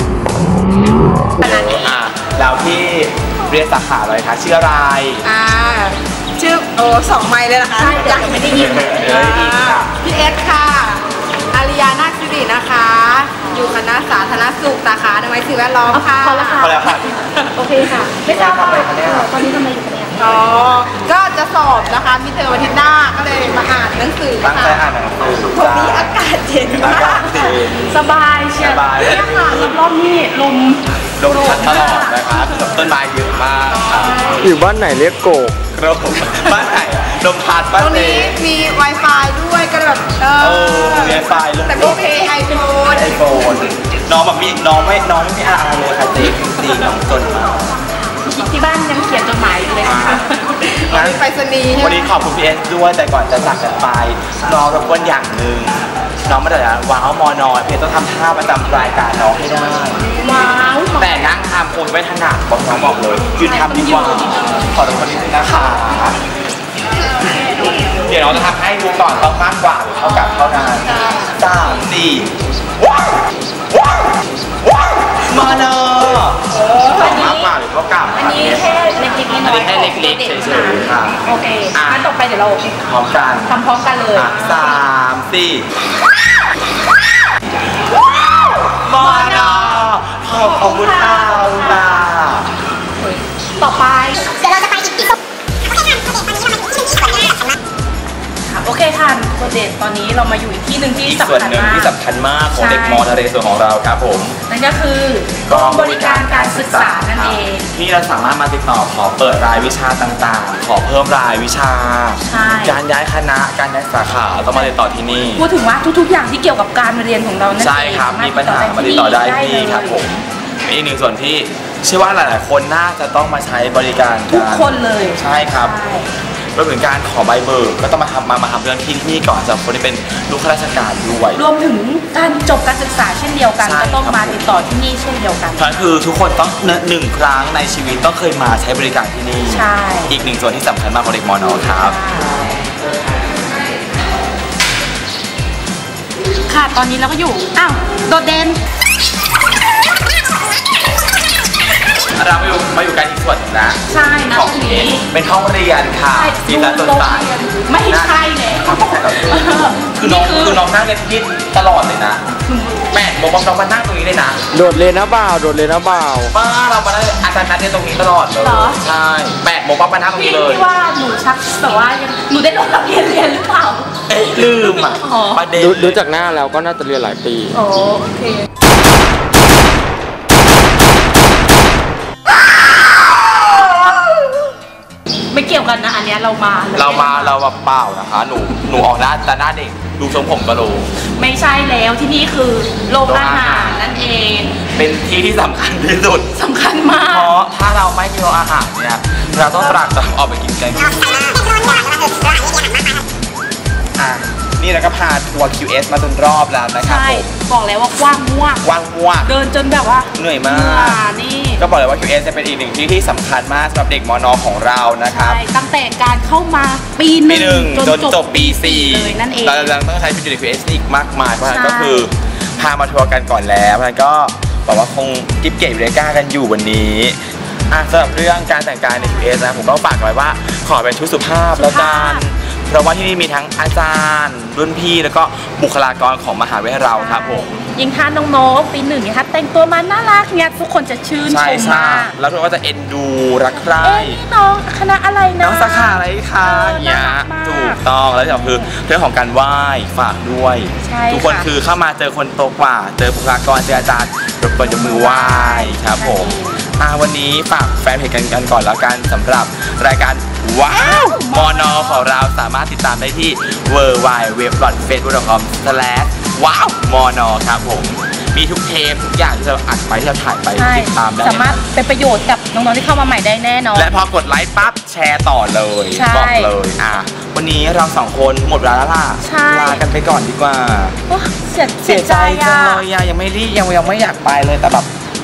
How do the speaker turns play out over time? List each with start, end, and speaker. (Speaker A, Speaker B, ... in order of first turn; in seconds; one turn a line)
Speaker A: 1.4-5.3
Speaker B: 5.2-16.7
Speaker C: 7.8-9.2
Speaker A: 8.2-10.0
Speaker C: 13.4-13.8
Speaker C: 15.9-17.0
Speaker A: 16.6-17.5
Speaker C: 17.5-20.4
Speaker A: 18.1-19.3
Speaker B: 20.2-27.3
Speaker A: 24.4-28.0
Speaker C: 27.0-32.8
Speaker A: 28.6-29.7
Speaker A: 31.2-34.3
Speaker B: 33.7-34.5
Speaker D: 34.4-35.6
Speaker A: 35.7-38.4
Speaker B: 37.8-43.3
Speaker A: 40.4-42.1
Speaker A: 42.9-47.7
Speaker C: 48.2-50.6
Speaker A: 49.8-50.3
Speaker B: 50.6-52.1
Speaker A: 50.9-51.2
Speaker A: 51.8-60.1
Speaker C: 60.1-61.3
Speaker A: 61.0-66.2
Speaker C: 63.4-64.7
Speaker A: 68.1-78.7
Speaker C: 70.0-71.3
Speaker C: 76.5-77.5
Speaker C: 78.2-82.8
Speaker A: 79.4-81.2
Speaker A: 81.7-82.0
Speaker A: 82.8-83.5
Speaker C: 83.5-84.8
Speaker A: 84.1-85.7
Speaker A: 88.7-92.5
Speaker C: 88.9-92.1
Speaker C: 93.0-94.6
Speaker E: 94.4-95.1
Speaker E: 95.8-97.5
Speaker C: 98.5-102.0
Speaker A: 101.0-104.4
Speaker C: 102.5-103.1
Speaker C: 104.5-107.7
Speaker A: 105.5-115.5
Speaker C: 112.2-112.8
Speaker C: 115.4-120.0
Speaker A: 117.6-125.8
Speaker C: 124.3-126.1
Speaker A: 126.5-131.4
Speaker C: 131.3-135.8
Speaker A: 133.6-134.4
Speaker A: 135.6-142.0
Speaker C: 139.5-140.2
Speaker C: 141.7-142.4
Speaker C: 146.5-148.6
Speaker A: 152.2-162.2
Speaker C: 153.9-155.0
Speaker C: 156.1-160.6
Speaker C: 162.5-162.9
Speaker A: 162.9-164.4
Speaker D: 164.5-166.3
Speaker A: 166.3-170.7
Speaker C: 168.4-168.8
Speaker C: 170.1-175.4
Speaker A: 174.1-176.0
Speaker D: 175.5-177.6
Speaker C: 177.5-178.5
Speaker C: 185.3-187.4
Speaker A: 186.8-191.0
Speaker C: 191.1-194.6
Speaker A: 193.0-193.9
Speaker A: 194.7-196.3
Speaker C: 196.3-197.3
Speaker A: 197.1-201.4
Speaker E: 201.8-202.9
Speaker A: 204.0-207.3
Speaker C: 206.8-208.6
Speaker A: 208.6-209.3
Speaker C: 209.2-211.6
Speaker A: 210.1-211.0
Speaker A: 211.6-215.4
Speaker C: 215.1-219.8
Speaker A: 217.3-237.6
Speaker C: 221.4-222.1
Speaker C: 228.9-229.3
Speaker C: 231.5-232.2
Speaker C: 236.9-242.2
Speaker A: 241.2-244.2
Speaker C: 243.6-248.7
Speaker A: 245.4-271.6
Speaker C: 250.8-251.5
Speaker C: 254.6-256.6
Speaker C: 260.7-262.1
Speaker C: 270.6-274.0
Speaker A: 273.7-281.0
Speaker C: 275.9-276.5
Speaker C: 279.2-279.8
Speaker C: 281.1-282.8
Speaker A: 281.8-284.9